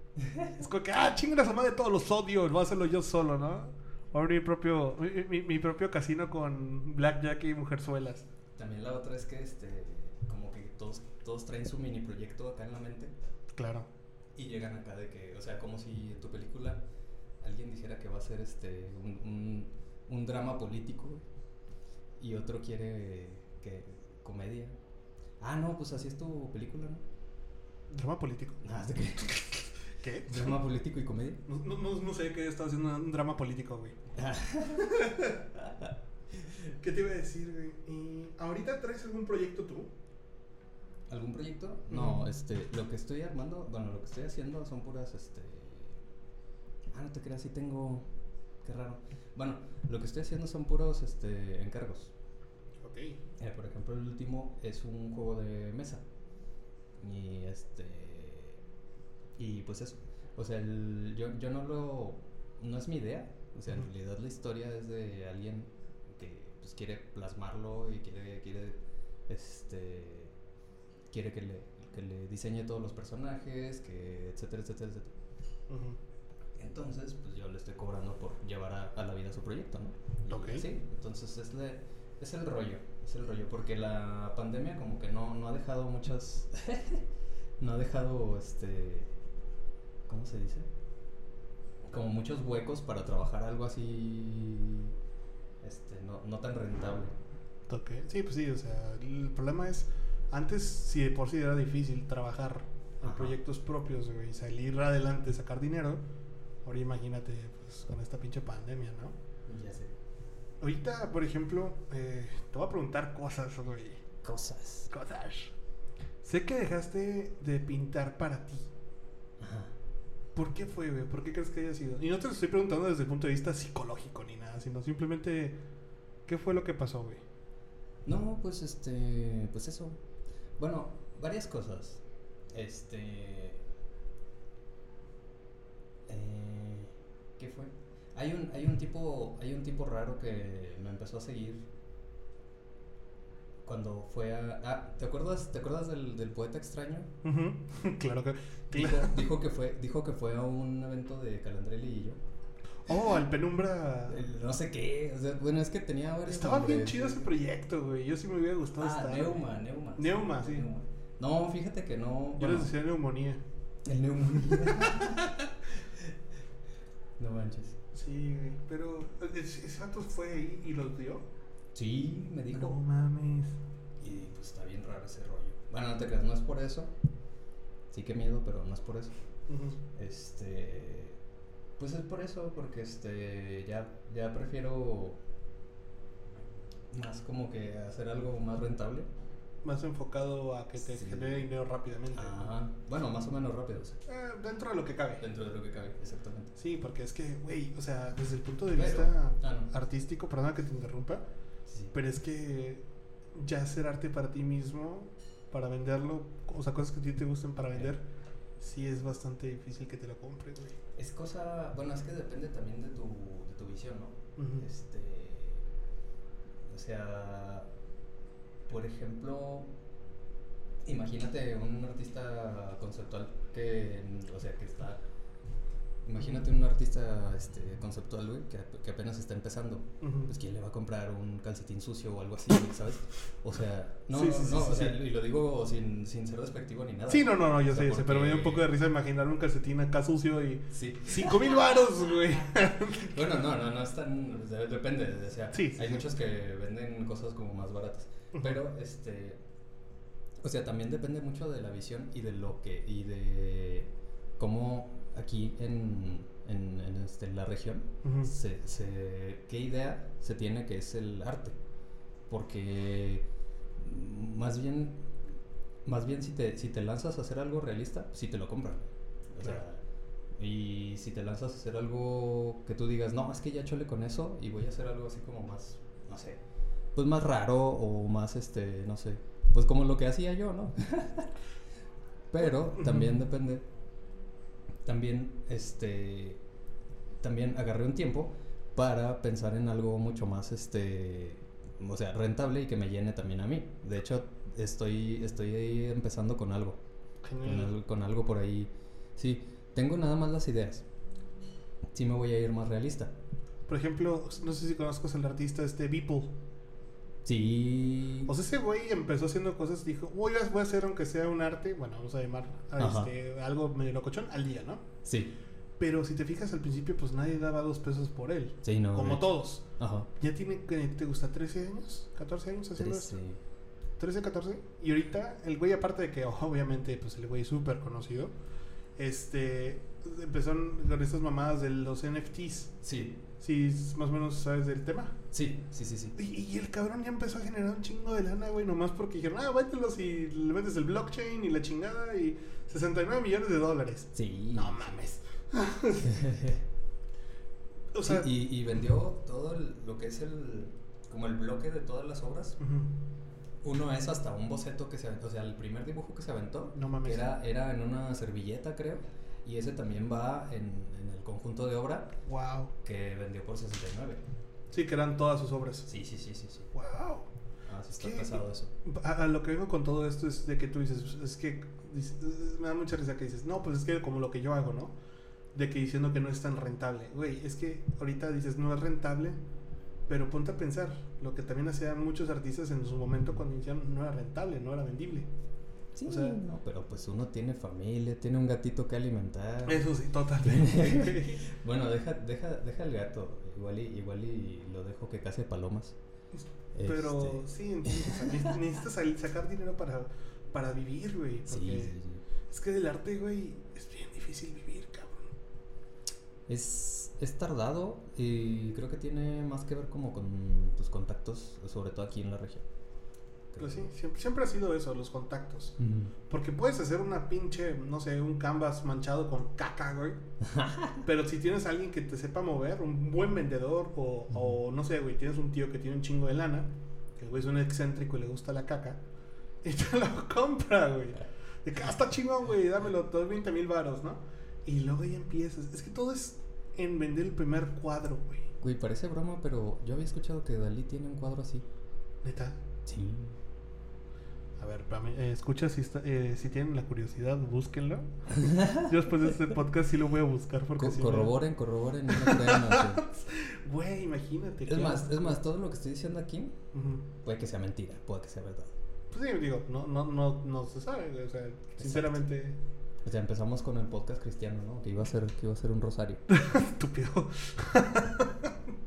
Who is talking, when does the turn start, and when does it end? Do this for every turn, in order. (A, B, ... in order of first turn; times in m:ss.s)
0:00.2-0:00.5 A
0:00.5-0:08.3 B
0:08.6-0:13.1 A
0:13.6-0:13.9 B
0:14.4-0:16.8 A
0:17.4-0:21.2 A
0:22.2-0:24.8 A
0:25.4-0:27.0 A
0:27.9-0:28.6 B
0:28.6-0:29.7 A
0:30.0-0:30.6 B
0:30.2-0:31.4 A
0:31.5-0:34.0 B
0:34.1-0:35.0 A
0:34.7-0:35.5 B
0:35.6-0:36.6 A
0:36.8-0:39.9 B
0:41.1-0:46.0 A
0:41.9-0:42.2 B
0:46.9-0:48.1 A
0:48.6-0:52.1 A
0:52.8-0:53.2 B
0:53.4-0:56.0 A
0:57.0-0:58.6 A
0:59.4-1:08.8 A
1:09.3-1:10.4 A
1:11.1-1:15.1 A
1:15.7-1:16.0 B
1:16.6-1:27.1 A
1:20.3-1:20.7 B
1:27.6-1:29.1 A
1:30.1-1:30.7 A
1:31.9-1:35.0 A
1:35.6-1:37.1 A
1:37.7-1:46.0 B
1:43.0-1:43.4 A
1:46.6-1:49.2 B
1:49.5-1:49.9 A
1:50.6-1:54.0 B
1:54.2-1:54.9 A
1:54.9-1:55.5 B
1:56.2-1:58.7 B
1:59.4-1:59.7 A
2:00.4-2:05.6 B
2:06.3-2:07.2 B
2:08.1-2:10.0 A
2:10.6-2:12.0 A
2:12.5-2:13.6 A
2:16.1-2:21.7 A
2:23.6-2:27.1 A
2:27.2-2:29.2 B
2:28.7-2:32.2 A
2:32.9-2:34.2 B
2:34.1-2:37.3 A
2:36.3-2:39.4 B
2:38.8-2:42.7 A
2:40.0-2:40.7 B
2:42.4-2:43.4 B
2:43.8-2:46.1 A
2:44.5-2:45.4 B
2:47.2-2:47.8 A
2:47.9-2:51.2 B
2:51.8-2:52.8 A
2:52.5-2:53.6 B
2:54.0-2:56.9 A
2:57.9-2:59.1 A
2:59.5-2:59.8 B
2:59.9-3:01.2 A
3:01.8-3:05.2 A
3:06.9-3:09.1 A
3:09.6-3:12.5 B
3:10.8-3:11.4 A
3:12.1-3:14.0 A
3:14.1-3:15.2 B
3:15.2-3:16.5 A
3:16.6-3:21.2 B
3:18.7-3:19.7 A
3:21.7-3:22.0 A
3:21.9-3:28.0 B
3:28.6-3:30.8 B
3:31.0-3:35.6 A
3:34.4-3:34.7 B
3:36.7-3:37.7 A
3:38.7-3:39.7 A
3:40.8-3:45.0 A
3:46.0-3:58.7 A
3:50.0-3:50.3 B
3:54.1-3:55.0 B
3:57.1-4:03.2 B
4:00.7-4:01.5 A
4:02.8-4:09.4 A
4:05.5-4:06.0 B
4:08.4-4:08.6 B
4:10.4-4:21.6 A
4:18.0-4:18.3 B
4:22.3-4:25.1 A
4:25.8-4:29.8 A
4:30.4-4:36.4 A
4:37.0-4:41.3 A
4:42.3-4:43.6 A
4:42.8-4:43.1 B
4:44.9-4:46.4 A
4:47.2-4:56.8 A
4:57.2-4:57.7 B
4:57.4-5:00.9 A
5:01.9-5:03.2 A
5:03.7-5:06.4 B
5:07.2-5:08.3 A
5:08.3-5:14.9 B
5:12.8-5:13.1 A
5:15.0-5:15.3 A
5:15.8-5:19.6 B
5:18.6-5:20.1 A
5:20.2-5:23.2 B
5:22.8-5:23.4 A
5:24.0-5:28.3 B
5:29.0-5:32.7 B
5:32.8-5:33.2 A
5:33.4-5:35.2 B
5:35.3-5:36.2 A
5:36.2-5:46.5 B
5:44.2-5:45.0 A
5:46.0-5:46.6 A
5:47.9-5:48.3 B
5:48.0-5:52.6 A
5:52.6-5:53.0 B
5:53.6-6:02.2 A
5:56.8-5:57.4 B
6:02.3-6:02.7 B
6:02.8-6:04.2 A
6:04.7-6:05.9 B
6:05.9-6:06.7 A
6:06.7-6:07.3 B
6:07.7-6:08.7 A
6:08.0-6:15.0 B
6:15.5-6:19.4 B
6:20.1-6:25.3 B
6:26.0-6:29.9 A
6:26.1-6:26.4 B
6:29.7-6:31.4 B
6:30.4-6:36.0 A
6:36.4-6:42.0 B
6:36.7-6:38.4 A
6:41.5-6:42.2 A
6:42.5-6:45.3 B
6:46.5-6:52.6 A
6:53.5-6:53.9 A
6:53.6-7:00.2 B
6:55.8-6:56.1 A
7:00.4-7:01.0 A
7:01.0-7:09.0 B
7:09.6-7:18.5 B
7:18.6-7:21.6 A
7:22.2-7:22.6 B
7:22.9-7:23.4 A
7:24.6-7:28.1 B
7:28.3-7:28.9 A
7:28.7-7:31.4 B
7:30.8-7:33.0 A
7:32.1-7:35.4 B
7:34.7-7:36.6 A
7:36.7-7:37.1 B
7:37.2-7:38.8 A
7:39.1-7:42.6 B
7:41.8-7:42.2 A
7:43.0-7:46.2 A
7:46.3-7:48.6 B